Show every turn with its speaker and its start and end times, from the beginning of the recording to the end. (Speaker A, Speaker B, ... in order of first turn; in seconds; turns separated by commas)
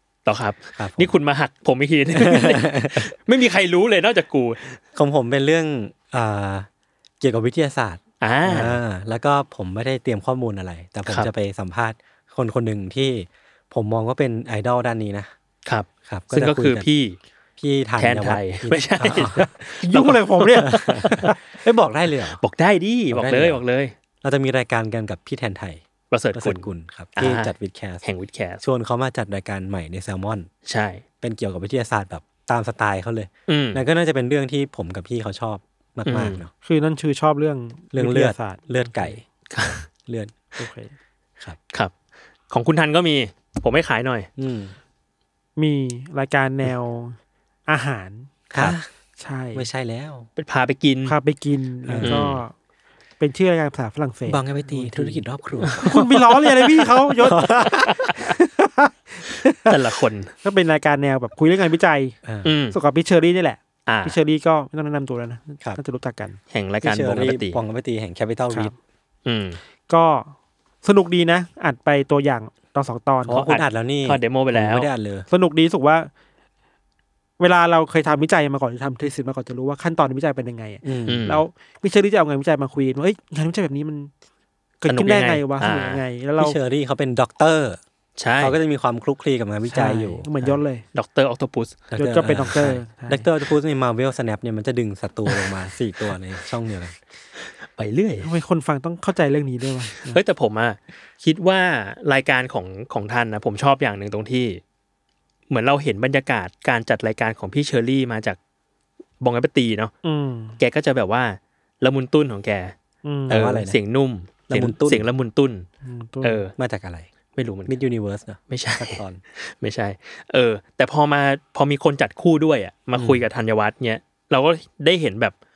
Speaker A: 0.2-4.8, Speaker B: 0.8-1.1, Speaker B: 2.1-3.1, Speaker B: 4.9-6.7, Speaker B: 7.2-15.3, Speaker A: 8.2-8.8, Speaker A: 11.1-11.3, Speaker A: 15.7-17.2, Speaker B: 16.1-16.9, Speaker B: 17.6-19.5, Speaker A: 18.0-21.2, Speaker C: 19.8-21.4, Speaker B: 20.6-22.4, Speaker A: 22.4-23.9, Speaker B: 23.1-23.6, Speaker B: 24.2-25.8, Speaker A: 26.1-26.6, Speaker B: 26.3-28.0, Speaker A: 27.2-27.5, Speaker A: 28.0-28.6, Speaker B: 28.6-30.5, Speaker A: 30.6-31.0, Speaker B: 31.2-36.5, Speaker A: 33.5-33.8, Speaker A: 36.0-36.4, Speaker C: 36.6-39.2, Speaker B: 37.9-39.2, Speaker A: 39.5-39.9, Speaker B: 40.1-40.3, Speaker C: 40.6-40.9, Speaker A: 42.5-44.3, Speaker B: 44.4-44.7, Speaker C: 45.6-49.6, Speaker B: 48.5-48.9, Speaker B: 49.5-50.3, Speaker A: 50.4-51.2, Speaker C: 51.0-52.5, Speaker B: 51.9-52.2, Speaker A: 52.0-52.4, Speaker C: 53.2-55.2, Speaker B: 54.2-58.2, Speaker C: 55.7-59.8, Speaker A: 57.9-58.3, Speaker A: 59.5-60.3, Speaker C: 60.4-62.2, Speaker B: 62.2-62.5, Speaker A: 62.4-62.8, Speaker C: 62.7-66.4, Speaker A: 63.9-64.2, Speaker A: 66.5-67.6, Speaker B: 66.8-68.7, Speaker A: 69.2-69.6, Speaker C: 69.9-73.4, Speaker B: 73.2-75.3, Speaker A: 73.3-74.9, Speaker C: 75.3-76.1, Speaker C: 77.4-84.1, Speaker B: 80.8-81.3, Speaker A: 81.1-81.4, Speaker C: 84.8-86.6, Speaker A: 84.9-86.0, Speaker B: 86.4-87.8, Speaker A: 88.2-88.6, Speaker B: 88.4-90.5, Speaker C: 89.7-90.8, Speaker A: 90.9-91.8, Speaker B: 91.9-96.9, Speaker C: 91.9-93.3, Speaker A: 95.3-95.5, Speaker A: 97.8-98.3, Speaker C: 98.2-100.2, Speaker A: 100.0-104.6, Speaker A: 105.5-108.4, Speaker A: 109.2-109.9, Speaker C: 110.0-110.6, Speaker A: 110.6-112.7, Speaker C: 113.0-113.4, Speaker B: 113.3-113.8, Speaker A: 113.3-115.7, Speaker B: 114.5-115.0, Speaker C: 115.8-116.4, Speaker A: 116.2-116.5, Speaker B: 116.6-117.1, Speaker A: 117.3-117.7, Speaker B: 117.7-119.2, Speaker A: 118.5-125.3, Speaker B: 122.9-123.2